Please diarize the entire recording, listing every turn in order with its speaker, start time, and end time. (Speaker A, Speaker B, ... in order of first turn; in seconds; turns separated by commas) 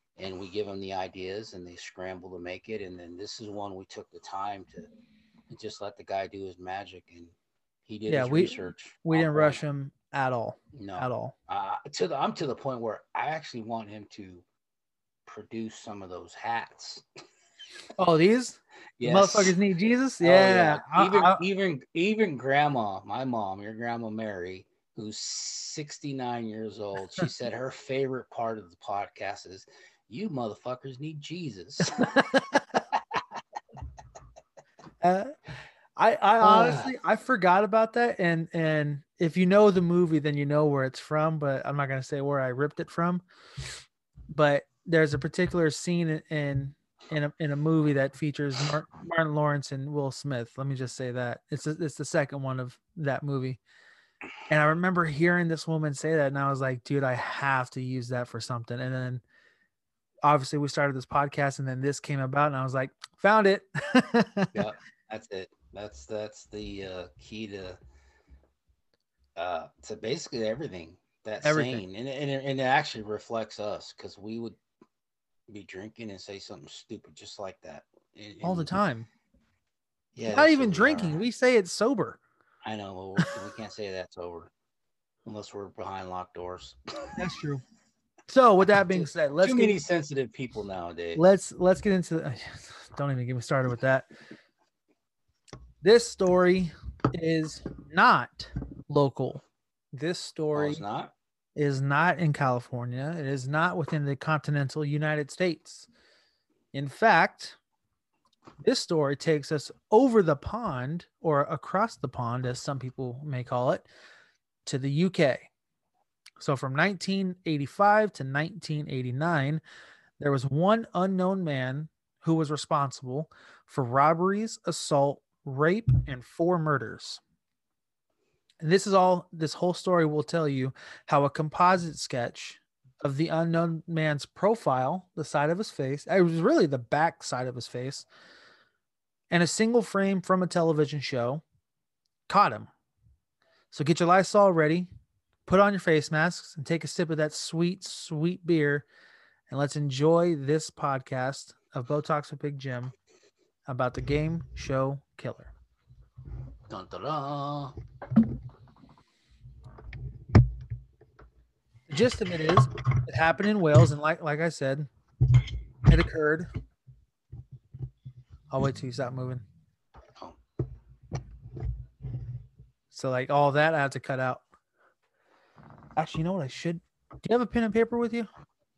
Speaker A: 0.2-4.9, Speaker A: 5.5-7.3, Speaker A: 7.8-9.6, Speaker B: 8.1-11.3, Speaker A: 10.7-14.4, Speaker A: 15.2-17.0, Speaker B: 18.0-21.4, Speaker A: 19.0-19.5, Speaker A: 20.2-32.2, Speaker B: 32.0-32.6, Speaker A: 32.9-33.2, Speaker B: 35.0-35.3, Speaker B: 36.0-43.2, Speaker A: 36.4-36.9, Speaker B: 44.3-53.6, Speaker B: 54.5-59.2, Speaker B: 60.2-64.5, Speaker A: 64.5-67.8, Speaker A: 69.3-74.6, Speaker B: 71.4-71.8, Speaker A: 75.5-78.7, Speaker B: 78.4-79.1, Speaker A: 80.1-81.2, Speaker B: 80.3-82.2, Speaker A: 82.6-84.5, Speaker A: 85.2-87.1, Speaker B: 87.2-87.6, Speaker B: 88.3-89.8, Speaker A: 88.9-91.2, Speaker B: 91.2-94.1, Speaker B: 95.8-100.8, Speaker A: 100.5-101.1, Speaker B: 101.5-105.9, Speaker B: 106.7-107.6, Speaker B: 108.6-113.9, Speaker B: 114.6-115.5, Speaker B: 116.4-119.6, Speaker B: 120.2-127.2, Speaker B: 128.6-138.1, Speaker B: 139.3-141.4, Speaker B: 142.3-142.7, Speaker B: 143.7-144.9, Speaker B: 145.5-148.8, Speaker B: 149.5-152.9, Speaker B: 153.7-155.5, Speaker A: 156.7-157.8, Speaker B: 161.9-164.9, Speaker B: 165.9-166.5, Speaker B: 168.5-169.4, Speaker B: 172.9-174.4, Speaker B: 176.0-178.3